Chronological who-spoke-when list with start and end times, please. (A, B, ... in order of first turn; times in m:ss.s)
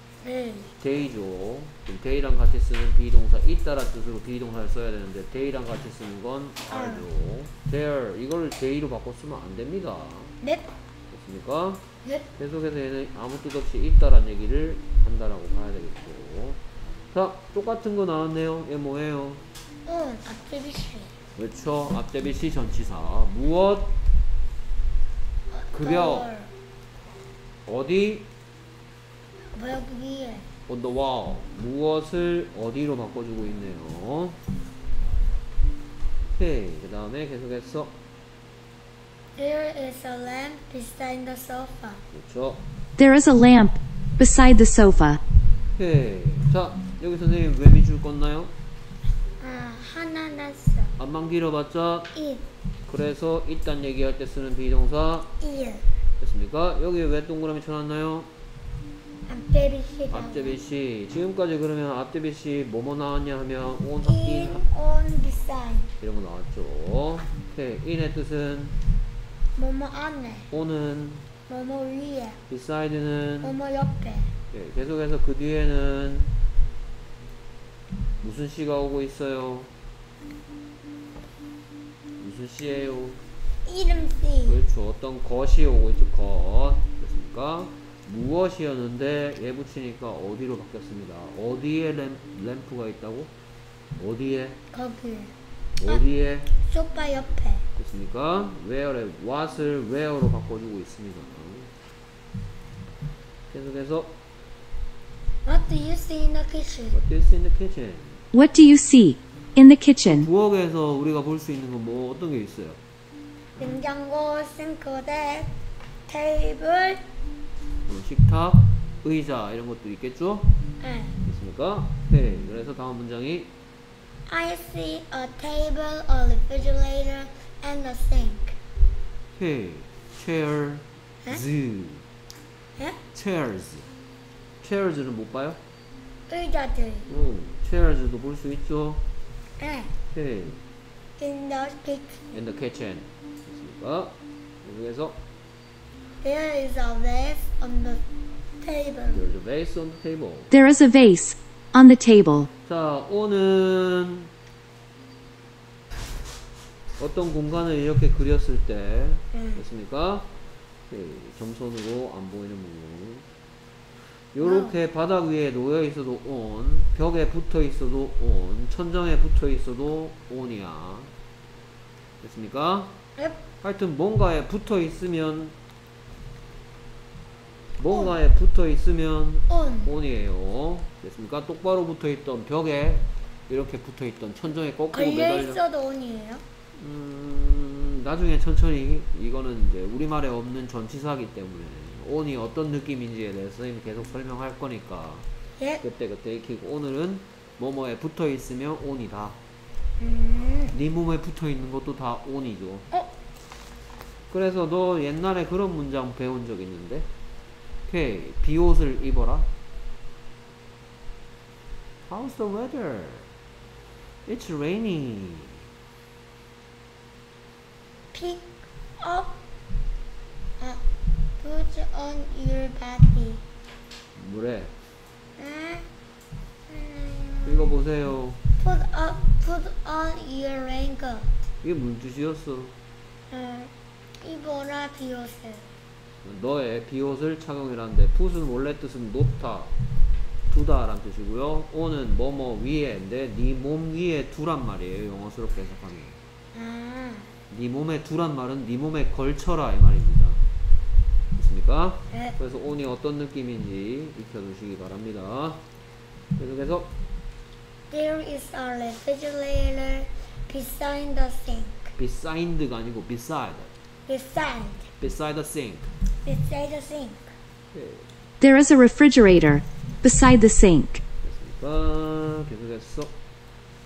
0:00.2-0:00.7 A
0:00.8-0:10.4 B
0:06.7-0:07.1 A
0:10.4-0:10.7 A
0:11.1-0:11.8 B
0:12.3-0:16.6 B
0:17.1-0:19.4 B
0:19.8-0:21.1 A
0:21.4-0:23.9 B
0:25.5-0:26.5 A
0:25.7-0:26.3 B
0:27.6-0:28.3 B
0:29.5-0:30.5 A
0:30.7-0:34.4 B
0:36.4-0:37.9 B
0:39.4-0:42.0 A
0:42.1-0:42.6 B
0:43.0-0:45.2 C
0:45.8-0:48.5 B
0:49.4-0:50.9 A
0:51.0-0:52.1 B
0:52.1-0:52.4 A
0:52.9-0:55.3 B
0:55.4-0:55.8 A
0:56.2-0:58.3 B
0:59.2-1:00.6 A
1:00.1-1:04.6 B
1:04.0-1:05.9 A
1:06.0-1:08.7 B
1:09.6-1:10.5 A
1:10.5-1:11.2 B
1:11.5-1:12.4 A
1:12.5-1:13.6 B
1:13.4-1:14.3 A
1:14.5-1:16.3 B
1:18.2-1:19.7 B
1:22.2-1:23.2 B
1:23.6-1:24.6 A
1:24.4-1:33.3 B
1:34.0-1:34.6 B
1:34.7-1:35.3 A
1:35.8-1:36.5 B
1:36.6-1:37.6 A
1:37.8-1:41.7 B
1:43.5-1:44.2 B
1:45.4-1:47.0 A
1:46.9-1:48.2 B
1:48.3-1:50.3 C
1:50.0-1:52.8 B
1:53.6-1:55.5 A
1:56.1-1:57.0 A
1:57.9-2:00.5 B
2:00.8-2:01.2 A
2:01.2-2:03.5 B
2:04.3-2:08.6 A
2:09.3-2:12.0 B
2:13.1-2:13.9 B
2:14.6-2:15.6 B
2:16.3-2:17.1 A
2:17.1-2:19.0 B
2:19.6-2:19.9 A
2:20.1-2:20.6 B
2:21.2-2:22.4 A
2:22.3-2:25.2 B
2:26.2-2:28.0 A
2:28.6-2:29.2 A
2:29.1-2:30.5 B
2:30.5-2:32.5 C
2:32.6-2:34.3 B
2:37.0-2:40.3 B
2:39.3-2:39.6 A
2:40.9-2:43.2 B
2:44.3-2:51.1 B
2:44.4-2:44.8 A
2:52.2-2:53.0 B
2:53.6-2:55.5 B
2:57.8-3:05.6 B
2:57.9-2:58.1 A
2:59.5-2:59.9 A
3:04.9-3:06.4 A
3:06.8-3:15.2 B
3:15.8-3:19.4 B
3:20.0-3:20.7 A
3:20.7-3:22.9 B
3:24.3-3:27.1 B
3:27.9-3:29.5 B
3:32.1-3:33.3 B
3:34.2-3:35.6 B
3:38.1-3:38.5 A
3:39.0-3:39.4 A
3:41.4-3:43.4 A
3:44.2-3:44.7 B
3:45.4-3:45.9 A
3:46.7-3:47.7 A
3:47.4-3:48.4 B
3:48.6-3:51.3 A
3:51.6-3:52.7 B
3:53.3-3:55.7 A
3:56.2-3:59.7 B
4:00.5-4:06.2 B
4:06.5-4:07.3 A
4:07.5-4:10.4 B
4:11.3-4:15.6 B
4:16.4-4:16.9 B
4:17.9-4:21.9 A
4:22.0-4:23.7 B
4:24.1-4:24.9 A
4:25.0-4:25.9 B
4:26.2-4:27.3 A
4:27.7-4:28.1 B
4:28.4-4:31.0 C
4:31.2-4:33.1 B